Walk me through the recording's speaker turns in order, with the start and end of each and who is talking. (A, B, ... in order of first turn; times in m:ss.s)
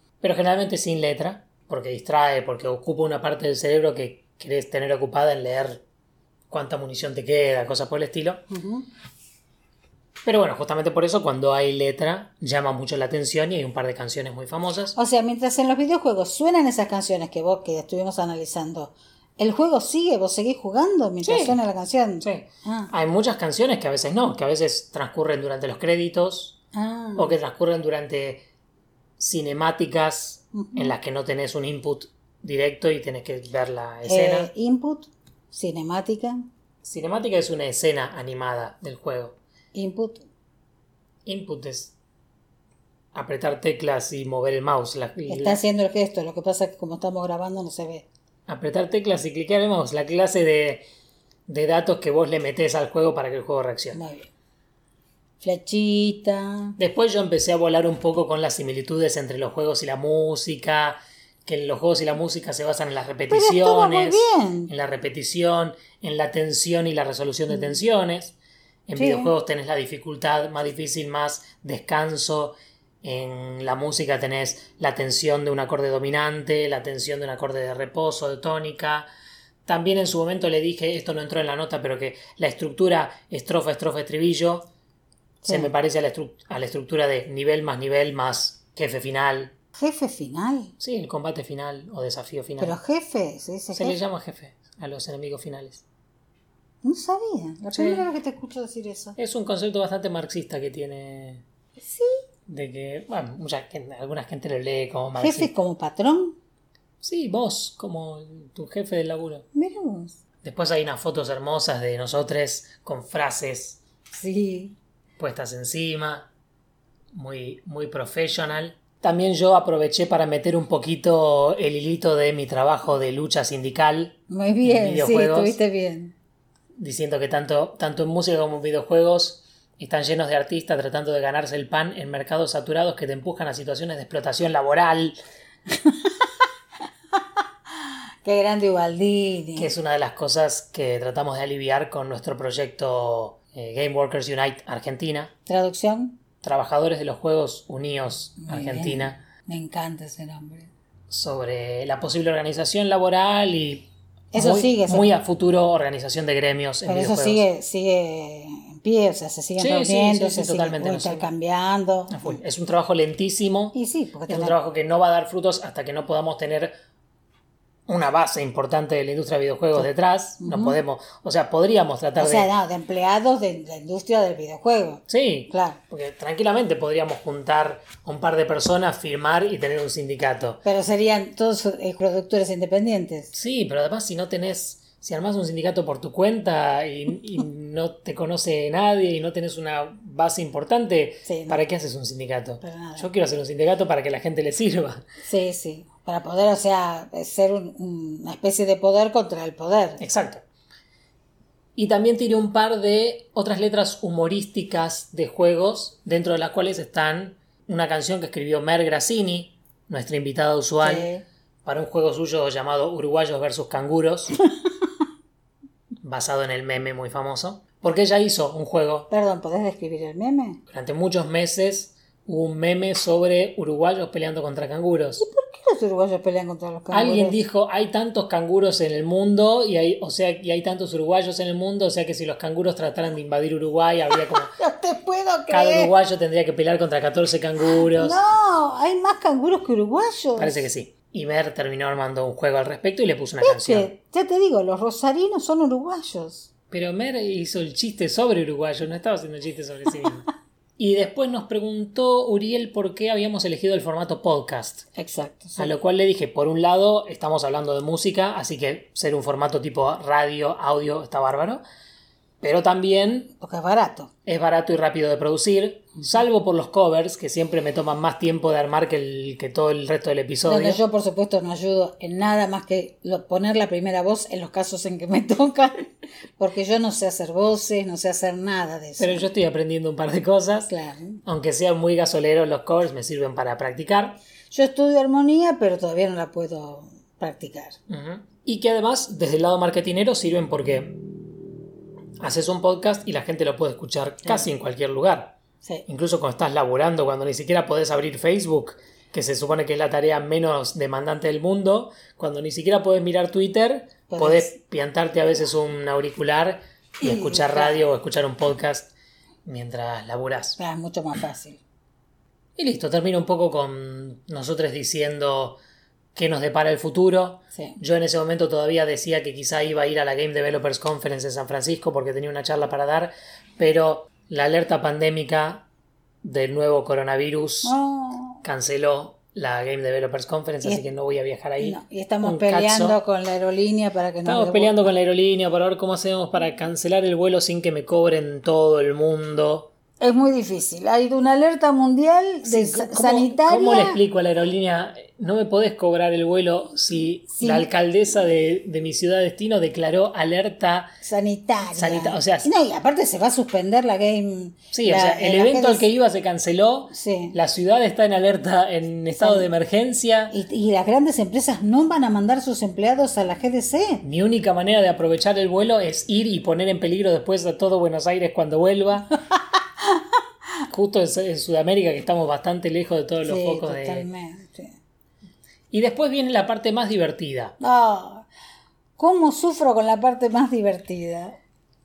0:00.2-0:05.8 A
0:06.5-0:08.4 A
0:08.5-0:08.9 B
0:10.2-0:15.0 A
0:14.9-0:22.9 B
0:21.2-0:21.6 A
0:22.2-0:26.6 A
0:26.7-0:27.4 B
0:27.1-0:28.4 A
0:29.2-0:34.5 A
0:30.5-0:30.9 B
0:34.0-0:36.4 B
0:36.8-0:39.4 A
0:39.7-0:40.2 B
0:41.2-0:41.9 A
0:43.1-0:45.6 A
0:45.3-0:48.0 B
0:48.5-0:50.8 A
0:51.5-0:54.0 A
0:53.9-0:54.3 B
0:55.4-0:56.8 B
0:56.8-1:08.3 A
1:03.3-1:04.7 B
1:08.9-1:19.1 A
1:09.0-1:09.3 B
1:19.6-1:24.7 A
1:25.4-1:25.7 B
1:25.5-1:29.5 A
1:29.7-1:30.7 B
1:30.8-1:32.8 A
1:32.6-1:34.0 B
1:33.7-1:35.8 A
1:36.8-1:39.2 B
1:37.7-1:38.0 A
1:39.2-1:41.4 A
1:41.8-1:42.2 B
1:42.5-1:45.5 A
1:45.2-1:46.4 B
1:47.0-1:49.4 A
1:49.5-1:50.2 B
1:50.4-1:53.8 A
1:54.1-1:54.8 B
1:55.2-1:56.3 A
1:57.1-2:05.6 A
2:04.3-2:06.1 B
2:06.8-2:15.2 A
2:15.7-2:16.3 B
2:17.1-2:19.7 B
2:19.6-2:25.3 A
2:25.5-2:26.2 B
2:26.4-2:29.2 A
2:28.4-2:30.7 B
2:31.1-2:37.4 A
2:34.3-2:35.1 B
2:36.8-2:42.4 B
2:39.6-2:41.3 A
2:42.1-2:46.7 A
2:43.7-2:44.6 B
2:47.9-2:52.5 A
2:50.4-2:50.8 B
2:52.2-2:55.8 B
2:55.1-3:00.6 A
3:00.6-3:03.3 B
3:03.3-3:15.0 A
3:11.2-3:11.6 B
3:12.6-3:13.1 B
3:15.2-3:20.0 B
3:20.0-3:20.4 A
3:21.8-3:31.1 A
3:30.8-3:31.2 B
3:31.6-3:34.4 A
3:36.0-3:39.1 A
3:39.1-3:40.6 B
3:40.7-3:45.2 A
3:45.2-3:47.4 B
3:46.9-3:54.5 A
3:54.1-3:55.9 B
3:55.5-3:58.2 A
3:57.7-4:00.6 B
4:00.4-4:03.9 A
4:03.4-4:06.5 B
4:06.7-4:14.8 A
4:15.0-4:15.7 B
4:15.6-4:21.6 A
4:22.4-4:23.3 A
4:23.4-4:24.1 B
4:24.2-4:30.8 A
4:30.4-4:39.3 B
4:39.0-4:40.7 A
4:40.7-4:41.2 B
4:41.2-4:44.2 A
4:44.5-4:47.8 B
4:47.9-4:51.0 A
4:52.2-5:08.9 A
5:04.1-5:04.5 B
5:07.0-5:07.8 B
5:09.4-5:10.6 A
5:10.6-5:11.6 B
5:12.6-5:15.6 A
5:16.1-5:25.6 A
5:26.2-5:27.7 A
5:27.6-5:28.4 B
5:28.4-5:33.0 A
5:31.6-5:34.8 B
5:34.2-5:39.7 A
5:40.0-5:44.0 B
5:42.4-5:50.9 A
5:47.3-5:47.7 B
5:51.0-5:55.9 B
5:51.7-5:52.5 A
5:54.7-6:00.3 A
5:56.9-5:57.4 B
5:59.2-5:59.5 B
6:00.3-6:04.0 B
6:04.0-6:09.1 A
6:09.4-6:10.2 B
6:10.7-6:14.1 A
6:13.2-6:14.8 B
6:15.7-6:17.5 A
6:17.6-6:18.3 B
6:19.0-6:21.4 B